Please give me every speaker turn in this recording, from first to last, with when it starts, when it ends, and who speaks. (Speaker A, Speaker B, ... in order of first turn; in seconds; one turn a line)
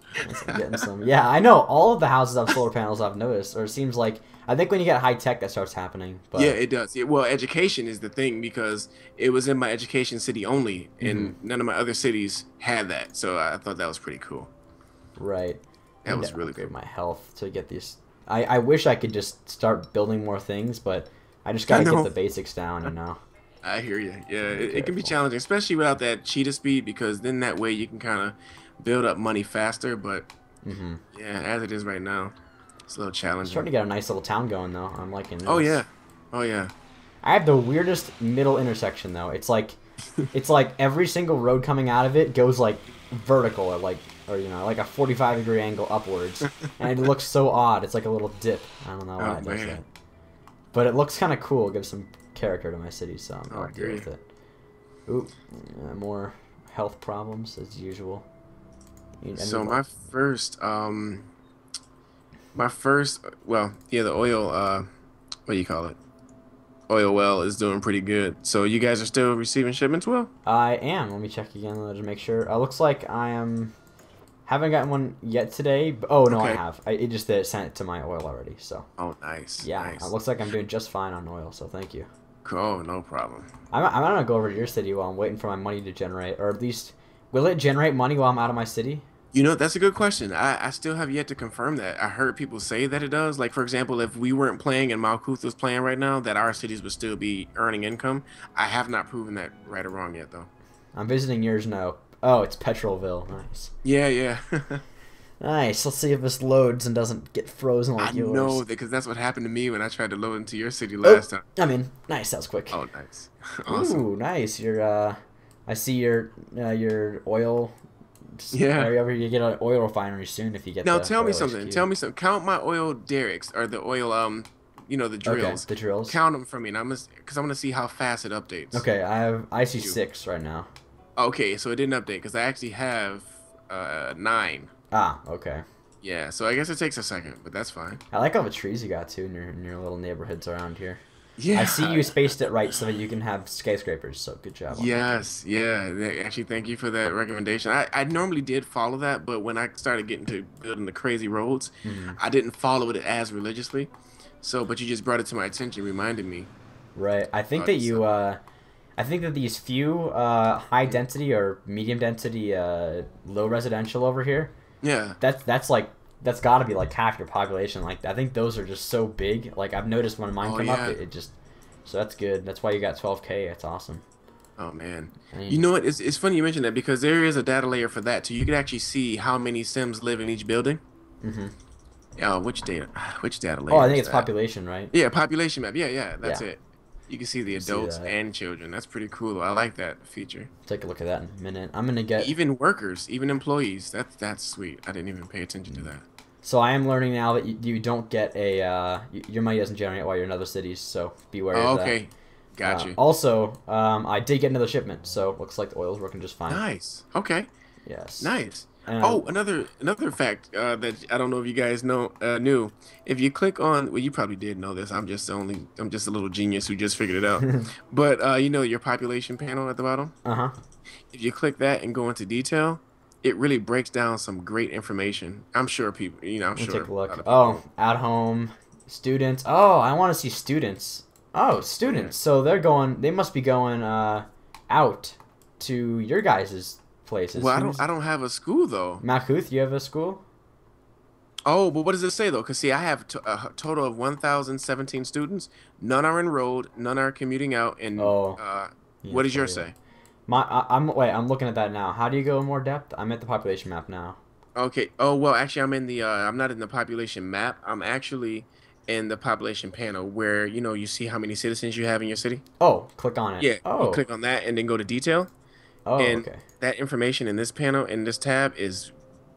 Speaker A: 0.2-6.6
Speaker B: 0.2-0.8
Speaker B: 6.3-14.5
Speaker A: 11.0-11.4
Speaker A: 15.2-23.2
Speaker B: 16.0-16.7
Speaker B: 21.7-22.1
Speaker B: 23.6-30.3
Speaker A: 24.4-25.2
Speaker A: 30.6-31.0
Speaker B: 31.1-32.3
Speaker B: 32.9-33.7
Speaker A: 33.4-35.8
Speaker B: 35.4-36.7
Speaker A: 37.2-39.8
Speaker A: 40.3-49.9
Speaker B: 49.2-49.8
Speaker A: 50.7-54.2
Speaker B: 53.5-54.1
Speaker A: 55.1-58.2
Speaker A: 59.2-59.8
Speaker B: 59.4-61.3
Speaker B: 62.5-64.9
Speaker B: 65.5-66.0
Speaker B: 66.9-70.3
Speaker A: 70.5-73.7
Speaker A: 74.5-78.9
Speaker B: 76.3-76.6
Speaker B: 79.0-80.1
Speaker A: 79.6-82.1
Speaker B: 82.4-83.5
Speaker A: 83.7-89.0
Speaker B: 89.3-100.5
Speaker A: 100.9-103.7
Speaker B: 103.8-104.8
Speaker A: 105.4-108.6
Speaker B: 108.0-111.4
Speaker A: 111.0-112.8
Speaker B: 112.7-114.0
Speaker A: 113.7-117.8
Speaker A: 118.3-121.9
Speaker B: 118.5-118.9
Speaker B: 120.8-128.8
Speaker A: 125.2-126.2
Speaker A: 128.7-130.7
Speaker B: 131.2-134.7
Speaker A: 134.9-135.6
Speaker B: 136.0-138.0
Speaker A: 138.1-141.0
Speaker B: 141.4-142.2
Speaker A: 141.5-145.1
Speaker B: 144.7-153.9
Speaker A: 151.8-152.2
Speaker B: 154.4-156.5
Speaker A: 156.9-158.4
Speaker B: 157.6-158.0
Speaker A: 159.0-164.5
Speaker B: 164.8-165.2
Speaker A: 165.2-174.0
Speaker B: 170.4-171.0
Speaker B: 174.6-180.8
Speaker A: 175.3-175.6
Speaker A: 181.2-181.5
Speaker B: 182.2-184.3
Speaker A: 183.7-184.9
Speaker B: 184.9-190.5
Speaker A: 187.5-188.1
Speaker A: 190.7-192.3
Speaker B: 192.2-196.0
Speaker A: 196.4-202.0
Speaker B: 201.5-203.0
Speaker A: 202.6-206.6
Speaker B: 206.5-207.5
Speaker A: 207.8-209.3
Speaker B: 208.2-220.1
Speaker A: 217.4-217.7
Speaker A: 220.2-220.5
Speaker B: 221.1-227.6
Speaker A: 226.6-237.8
Speaker B: 231.8-232.1
Speaker B: 237.3-239.0
Speaker A: 239.0-240.2
Speaker B: 241.4-249.7
Speaker A: 247.9-248.4
Speaker A: 249.0-249.7
Speaker A: 250.3-254.2
Speaker B: 254.5-262.4
Speaker A: 262.6-264.0
Speaker B: 263.4-265.3
Speaker A: 265.9-266.4
Speaker B: 266.0-268.9